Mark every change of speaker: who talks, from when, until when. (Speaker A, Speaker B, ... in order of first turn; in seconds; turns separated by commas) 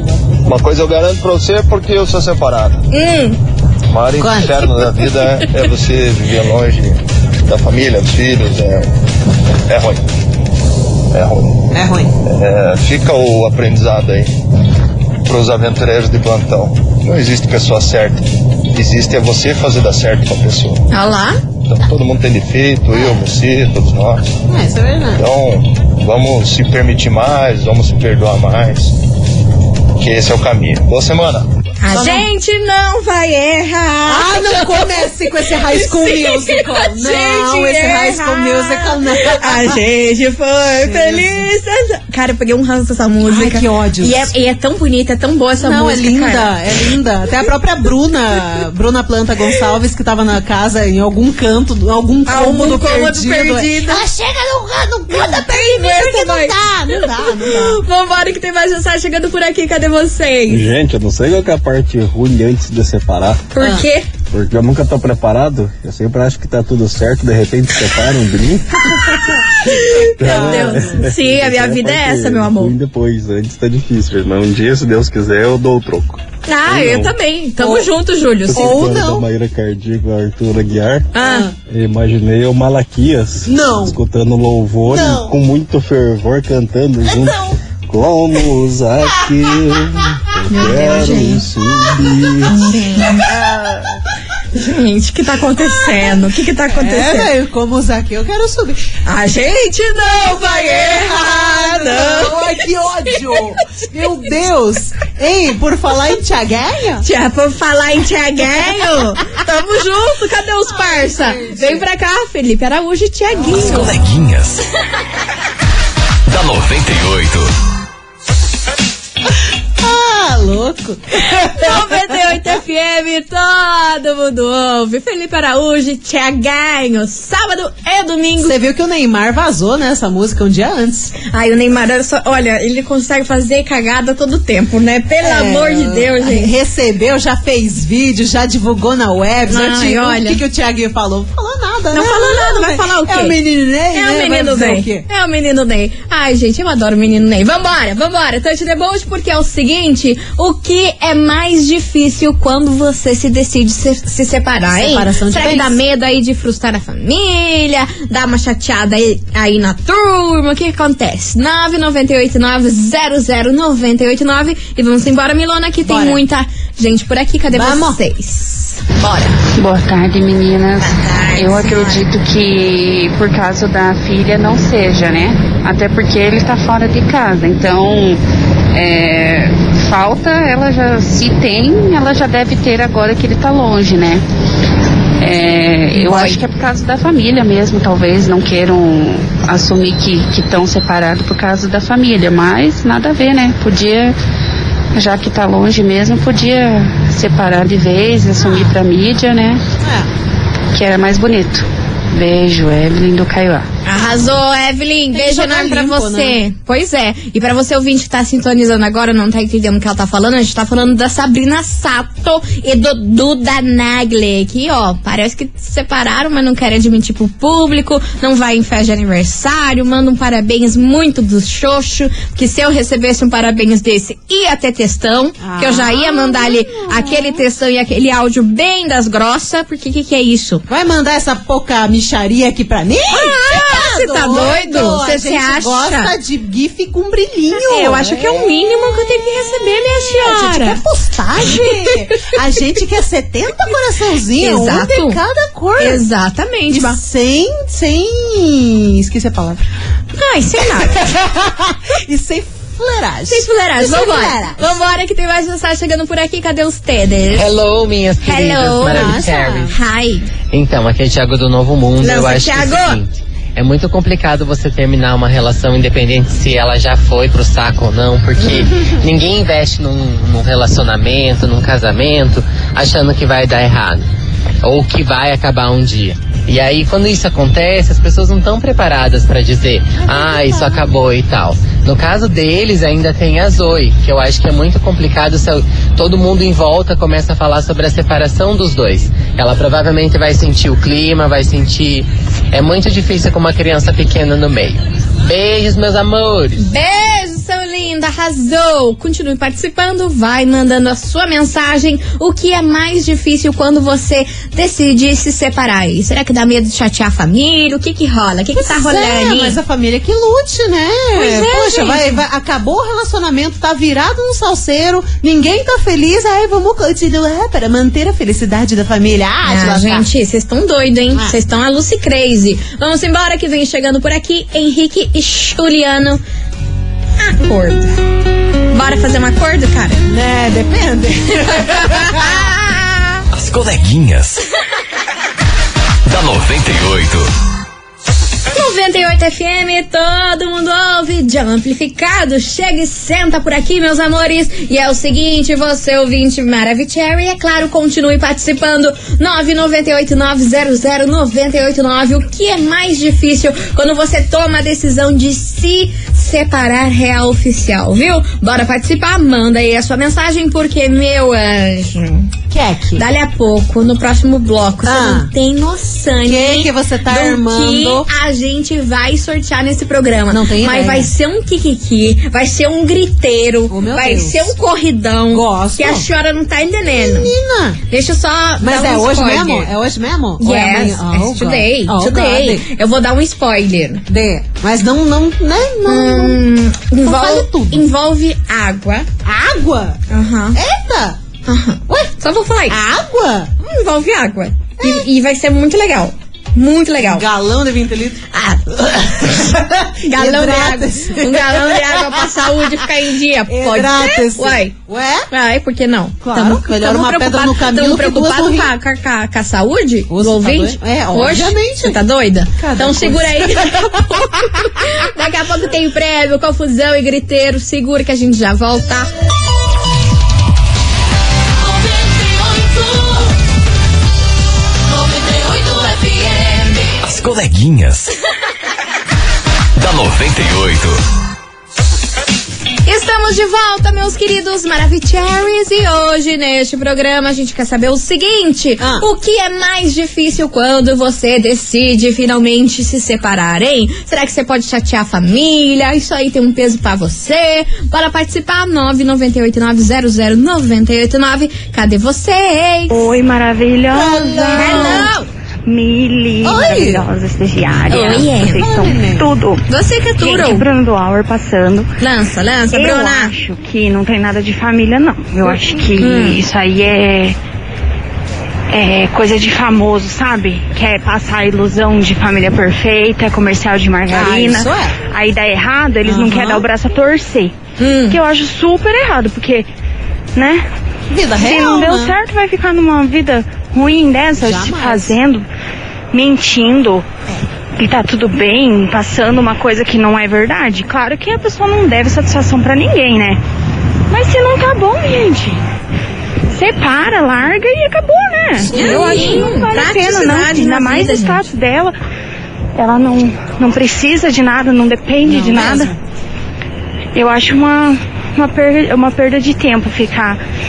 Speaker A: 0.4-2.8, Speaker B: 2.9-3.4, Speaker A: 3.9-8.9, Speaker C: 4.2-4.7, Speaker A: 9.7-10.0, Speaker A: 11.1-11.7, Speaker C: 11.7-12.1, Speaker A: 12.2-14.3, Speaker A: 15.2-20.9, Speaker B: 20.9-21.4, Speaker A: 21.7-24.4, Speaker C: 24.5-25.2, Speaker A: 25.2-28.9, Speaker A: 30.0-31.5, Speaker B: 31.8-46.5, Speaker C: 31.9-32.2, Speaker C: 34.0-39.8, Speaker C: 40.7-41.4, Speaker C: 43.2-44.3, Speaker C: 45.6-57.8, Speaker B: 52.3-54.0, Speaker B: 55.1-60.6, Speaker D: 60.5-63.5, Speaker B: 63.5-64.1, Speaker C: 63.6-63.9, Speaker D: 64.3-69.2, Speaker B: 69.5-72.7, Speaker D: 70.2-77.1, Speaker C: 70.2-71.0, Speaker B: 76.5-78.8, Speaker C: 77.6-77.9, Speaker D: 78.5-81.1, Speaker C: 78.5-79.2, Speaker B: 81.1-81.5, Speaker C: 81.2-81.5, Speaker D: 81.6-92.7, Speaker C: 83.5-84.0, Speaker C: 84.8-85.3, Speaker C: 87.2-87.5, Speaker B: 90.5-91.4, Speaker B: 92.5-93.2, Speaker C: 93.2-94.0, Speaker B: 94.5-97.3, Speaker C: 96.7-98.8, Speaker B: 99.0-102.5, Speaker C: 100.0-107.0, Speaker B: 103.1-103.6, Speaker B: 107.0-113.9, Speaker C: 110.7-111.8, Speaker E: 113.5-114.6, Speaker E: 116.3-117.5, Speaker C: 119.8-122.1, Speaker B: 121.2-128.5, Speaker C: 128.4-131.1, Speaker B: 131.2-136.5, Speaker C: 135.2-145.1, Speaker B: 139.5-140.4, Speaker B: 141.9-143.4, Speaker B: 143.9-169.4, Speaker C: 154.7-155.8, Speaker C: 165.8-166.2, Speaker C: 167.5-168.0, Speaker F: 169.6-178.2, Speaker B: 170.8-172.0, Speaker F: 178.7-184.2, Speaker F: 185.2-194.1, Speaker B: 185.9-186.4, Speaker F: 194.9-199.6, Speaker C: 198.4-198.7, Speaker C: 199.8-200.1, Speaker F: 200.7-203.6, Speaker B: 203.8-230.6, Speaker C: 205.1-206.4, Speaker C: 225.4-227.4, Speaker C: 230.7-238.5, Speaker B: 233.1-236.1, Speaker B: 237.7-240.8, Speaker C: 240.1-246.0, Speaker B: 244.4-245.2, Speaker B: 245.8-247.0, Speaker C: 246.7-249.7, Speaker B: 250.2-251.0, Speaker C: 250.8-254.7, Speaker B: 253.3-257.5, Speaker G: 257.3-259.7, Speaker B: 258.2-260.3, Speaker C: 258.9-259.7, Speaker G: 260.5-274.1, Speaker B: 262.0-263.0, Speaker G: 274.6-296.7, Speaker C: 280.0-280.9, Speaker B: 296.6-309.6, Speaker C: 308.5-320.1, Speaker B: 311.1-312.2, Speaker B: 319.4-326.2, Speaker B: 327.2-327.9, Speaker B: 328.7-330.1, Speaker C: 330.1-332.4, Speaker B: 331.5-333.2, Speaker E: 333.3-334.4, Speaker E: 336.1-337.3, Speaker B: 338.5-362.3, Speaker C: 362.5-363.0, Speaker B: 362.9-377.3, Speaker C: 364.8-365.3, Speaker C: 366.2-368.1, Speaker C: 370.3-371.1, Speaker C: 373.7-374.5, Speaker C: 375.3-376.1, Speaker C: 376.9-377.8, Speaker B: 377.9-379.7, Speaker C: 378.6-382.7, Speaker B: 380.4-384.0, Speaker C: 384.1-386.4, Speaker B: 385.9-389.1, Speaker C: 387.0-387.9, Speaker C: 389.2-390.0, Speaker B: 390.1-390.6, Speaker C: 390.5-391.2, Speaker B: 391.4-392.8, Speaker C: 391.9-392.1, Speaker C: 392.7-393.5, Speaker B: 393.6-397.2, Speaker C: 394.8-395.0, Speaker C: 397.0-398.2, Speaker B: 398.3-398.9, Speaker C: 398.8-402.7, Speaker B: 400.0-404.7, Speaker C: 403.5-405.3, Speaker B: 405.3-419.1, Speaker C: 406.2-408.7, Speaker C: 410.1-412.0, Speaker C: 412.6-414.0, Speaker E: 427.0-428.1, Speaker E: 429.8-431.0, Speaker B: 432.9-453.1, Speaker C: 438.8-439.1, Speaker H: 452.9-455.1, Speaker C: 453.9-455.1, Speaker B: 454.5-455.2, Speaker H: 455.6-459.7, Speaker C: 456.4-457.1, Speaker B: 457.9-458.7, Speaker C: 458.6-459.3, Speaker B: 459.7-460.7, Speaker H: 460.2-461.9, Speaker B: 462.0-463.3, Speaker H: 462.7-467.4, Speaker B: 466.0-466.4, Speaker H: 468.7-479.7, Speaker C: 474.1-475.0, Speaker C: 476.1-476.6, Speaker B: 477.8-478.2, Speaker H: 480.3-480.6, Speaker C: 481.1-482.1, Speaker H: 481.4-485.4, Speaker C: 484.4-485.1, Speaker H: 486.1-487.1, Speaker H: 487.8-493.4, Speaker H: 494.1-495.6, Speaker H: 496.5-501.9, Speaker C: 498.6-499.5, Speaker B: 498.7-501.4, Speaker H: 502.8-505.9, Speaker C: 505.2-506.0, Speaker H: 507.1-510.4